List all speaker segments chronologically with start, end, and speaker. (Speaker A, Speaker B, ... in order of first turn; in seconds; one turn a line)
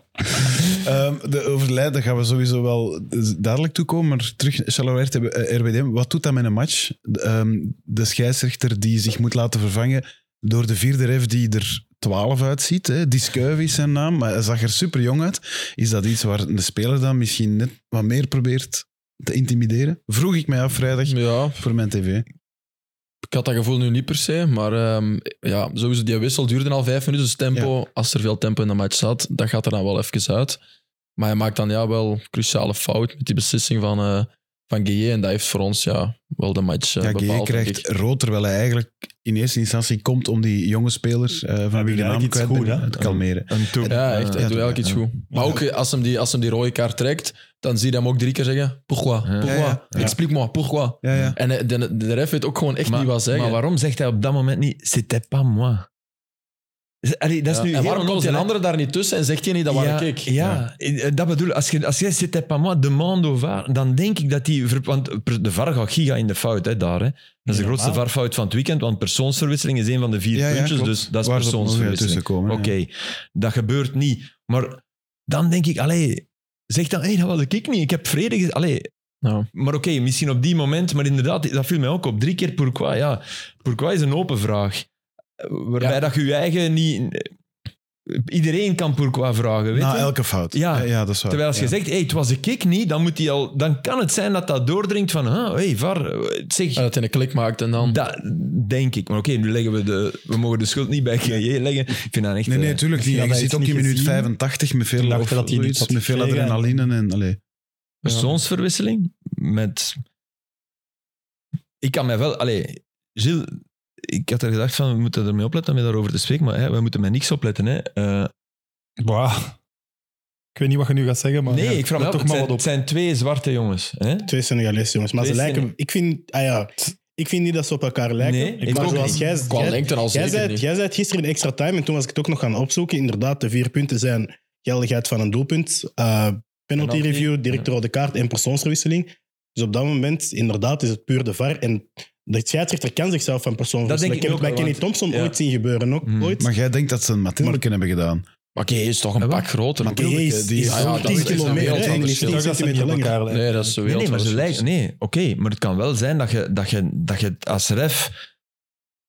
Speaker A: 0.3-22.2
Speaker B: 21.1-21.6
Speaker B: 23.2-30.6
Speaker B: 31.2-37.9
Speaker A: 37.0-44.8
Speaker C: 41.7-42.9
Speaker D: 43.0-45.0
Speaker B: 43.8-53.6
Speaker D: 49.2-50.1
Speaker A: 49.4-50.1
Speaker A: 51.0-51.4
Speaker D: 51.1-51.4
Speaker D: 52.9-55.9
Speaker D: 57.0-58.5
Speaker B: 57.5-60.3
Speaker D: 59.7-78.9
Speaker C: 67.5-68.0
Speaker A: 70.3-72.7
Speaker B: 79.2-79.5
Speaker D: 79.5-84.8
Speaker D: 85.4-87.3
Speaker D: 88.1-96.8
Speaker A: 89.7-91.7
Speaker B: 96.7-98.0
Speaker D: 97.8-102.8
Speaker A: 102.5-107.4
Speaker C: 103.0-104.3
Speaker C: 105.0-106.8
Speaker D: 108.0-110.0
Speaker D: 111.8-118.3
Speaker C: 119.0-119.5
Speaker C: 120.5-122.6
Speaker D: 121.5-124.3
Speaker E: 124.3-146.5
Speaker D: 125.2-125.7
Speaker D: 128.2-129.2
Speaker C: 128.6-129.3
Speaker B: 129.4-130.6
Speaker D: 136.8-137.4
Speaker D: 143.8-145.3
Speaker D: 146.1-146.4
Speaker A: 146.4-148.2
Speaker B: 148.6-152.4
Speaker D: 149.2-149.5
Speaker A: 149.8-152.2
Speaker E: 149.8-153.2
Speaker C: 152.2-153.8
Speaker B: 153.3-154.6
Speaker D: 153.8-158.1